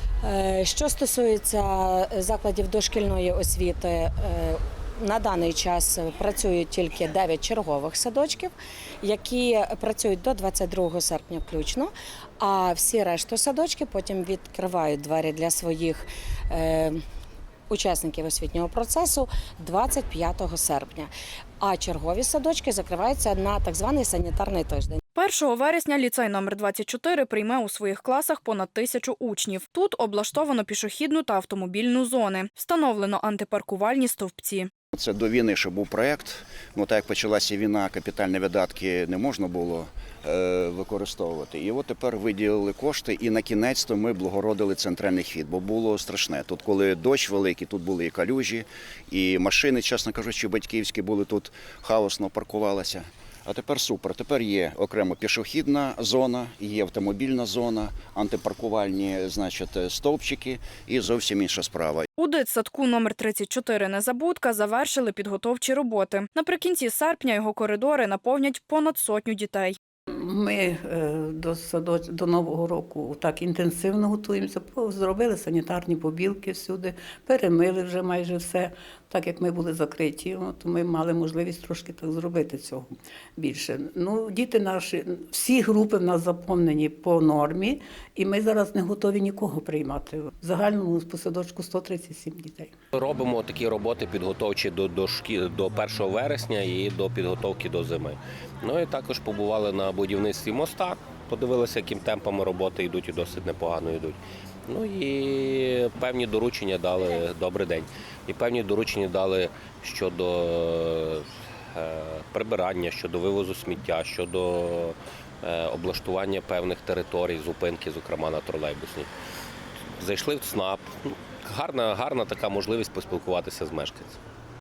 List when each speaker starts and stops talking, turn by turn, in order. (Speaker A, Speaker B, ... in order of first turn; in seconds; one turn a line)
Speaker A: 0.2-17.0
Speaker A: 17.7-25.0
Speaker B: 25.1-34.7
Speaker C: 35.0-62.1
Speaker B: 62.2-69.8
Speaker D: 70.1-92.7
Speaker E: 92.9-119.1
Speaker E: 120.0-124.2